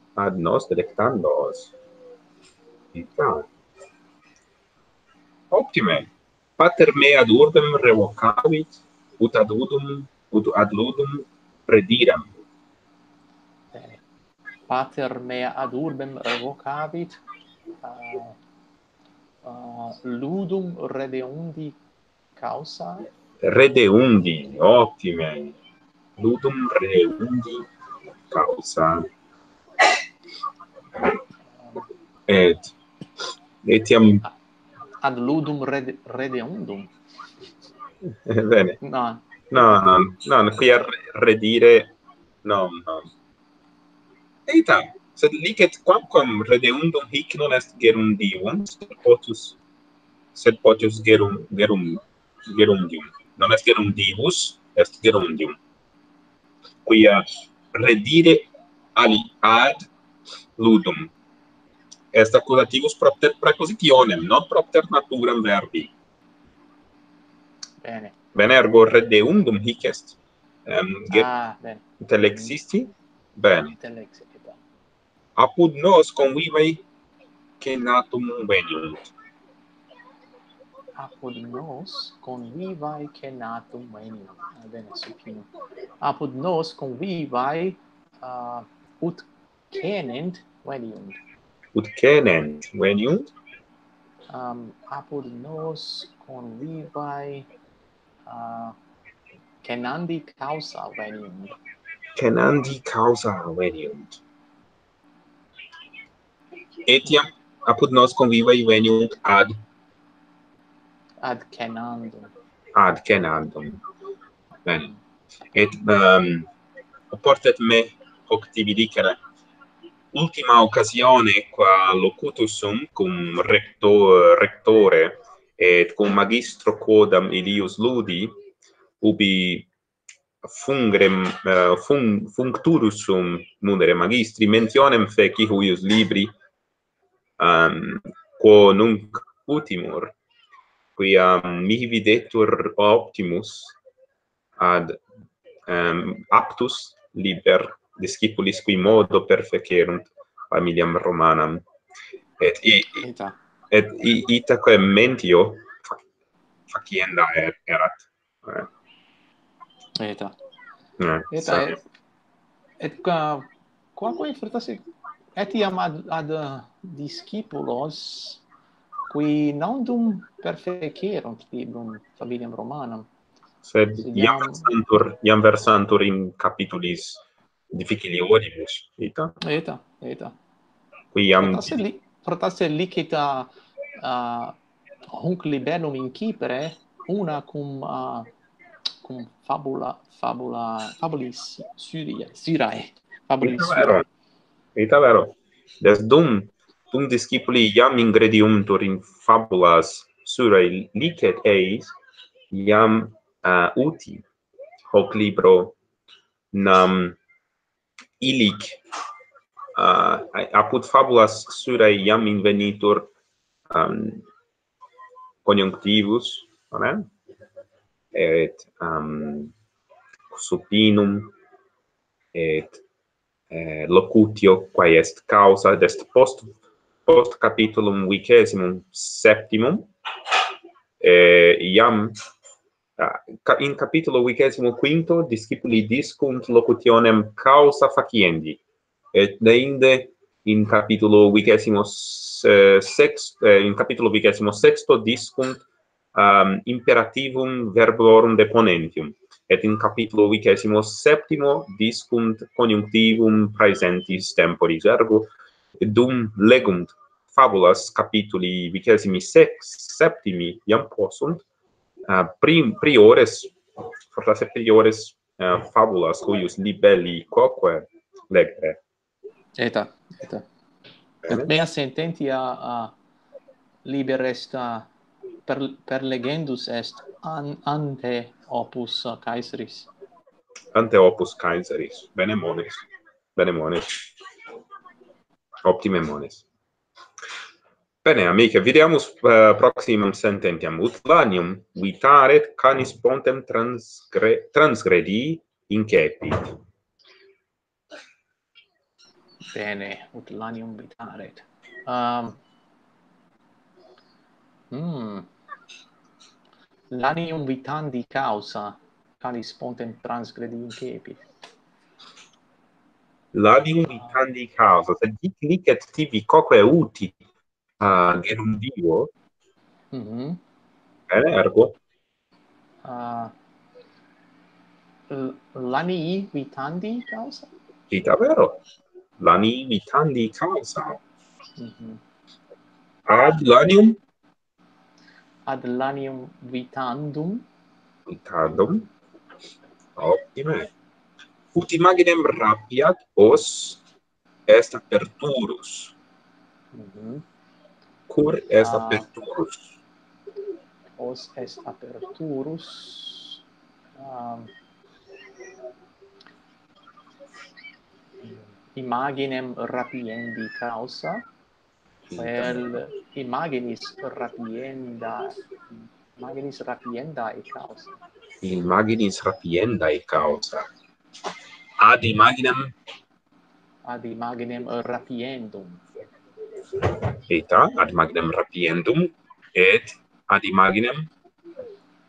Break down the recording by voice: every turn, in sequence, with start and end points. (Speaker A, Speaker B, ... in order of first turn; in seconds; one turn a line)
Speaker A: 0.2-1.7
Speaker A: 2.9-3.5
Speaker A: 5.5-12.3
Speaker B: 13.7-14.0
Speaker B: 14.7-17.2
Speaker B: 17.8-18.4
Speaker B: 19.4-21.8
Speaker B: 22.4-23.1
Speaker A: 23.4-25.6
Speaker A: 26.2-27.7
Speaker A: 28.3-29.1
Speaker B: 31.5-31.8
Speaker A: 32.3-32.7
Speaker A: 33.6-34.2
Speaker B: 35.0-36.9
Speaker A: 38.0-38.8
Speaker B: 38.8-39.6
Speaker A: 39.5-43.1
Speaker A: 44.5-49.6
Speaker A: 50.3-55.6
Speaker A: 56.9-59.8
Speaker A: 60.6-61.1
Speaker A: 62.1-65.9
Speaker B: 67.8-68.2
Speaker A: 68.3-71.3
Speaker B: 71.1-72.6
Speaker A: 72.0-73.8
Speaker B: 73.8-74.6
Speaker A: 75.4-76.8
Speaker A: 77.6-79.1
Speaker B: 81.0-85.5
Speaker B: 86.0-91.2
Speaker A: 91.8-93.3
Speaker B: 94.3-97.5
Speaker B: 98.3-98.8
Speaker B: 99.6-101.6
Speaker A: 102.2-104.2
Speaker A: 106.9-109.5
Speaker B: 111.2-112.3
Speaker A: 112.8-113.8
Speaker A: 114.7-114.9
Speaker A: 115.5-116.5
Speaker A: 117.1-119.2
Speaker A: 120.1-128.3
Speaker A: 129.0-129.7
Speaker A: 130.4-136.3
Speaker A: 137.4-140.2
Speaker A: 141.0-143.8
Speaker A: 144.6-145.0
Speaker A: 145.7-151.6
Speaker A: 152.4-153.1
Speaker B: 153.0-153.4
Speaker A: 153.7-156.0
Speaker A: 156.7-158.7
Speaker B: 160.0-160.3
Speaker A: 161.0-161.8
Speaker B: 161.3-161.8
Speaker B: 162.8-168.4
Speaker B: 169.1-173.1
Speaker A: 173.6-179.3
Speaker B: 174.0-174.7
Speaker B: 179.4-180.4
Speaker A: 181.1-181.8
Speaker B: 181.4-184.6
Speaker B: 185.1-188.3
Speaker B: 189.0-194.0
Speaker A: 193.4-194.1
Speaker A: 194.8-201.9
Speaker A: 202.5-204.2
Speaker A: 204.9-205.8
Speaker A: 206.5-207.2
Speaker A: 208.2-208.8
Speaker A: 209.8-213.1
Speaker A: 213.7-214.2
Speaker A: 215.4-217.1
Speaker A: 218.1-219.5
Speaker A: 220.3-221.3
Speaker A: 222.3-222.8
Speaker A: 223.5-226.5
Speaker A: 227.1-229.9
Speaker A: 231.0-232.2
Speaker A: 233.0-238.6
Speaker A: 239.1-261.4
Speaker A: 262.1-263.6
Speaker A: 264.1-268.8
Speaker B: 269.6-270.5
Speaker A: 271.2-271.5
Speaker B: 271.3-272.9
Speaker B: 273.9-274.9
Speaker B: 275.5-279.9
Speaker A: 280.8-284.0
Speaker A: 285.6-286.4
Speaker A: 288.0-296.6
Speaker B: 299.5-302.4
Speaker B: 304.7-305.3
Speaker B: 306.9-311.2
Speaker A: 313.3-317.2
Speaker A: 317.8-319.1
Speaker B: 319.9-320.4
Speaker A: 321.1-321.8
Speaker B: 322.8-323.3
Speaker B: 325.1-327.5
Speaker A: 327.9-328.6
Speaker A: 329.2-331.0
Speaker B: 331.6-332.0
Speaker A: 333.1-334.0
Speaker B: 335.5-337.5
Speaker A: 338.1-338.9
Speaker A: 340.0-340.7
Speaker A: 341.5-343.8
Speaker A: 344.5-345.9
Speaker B: 346.7-347.2
Speaker A: 348.1-349.8
Speaker B: 348.6-349.1
Speaker B: 351.0-353.4
Speaker B: 354.0-354.5
Speaker B: 358.2-361.3
Speaker A: 362.1-362.8
Speaker B: 362.2-367.9
Speaker A: 368.4-370.7
Speaker A: 371.8-372.7
Speaker B: 373.9-375.9
Speaker A: 377.3-381.1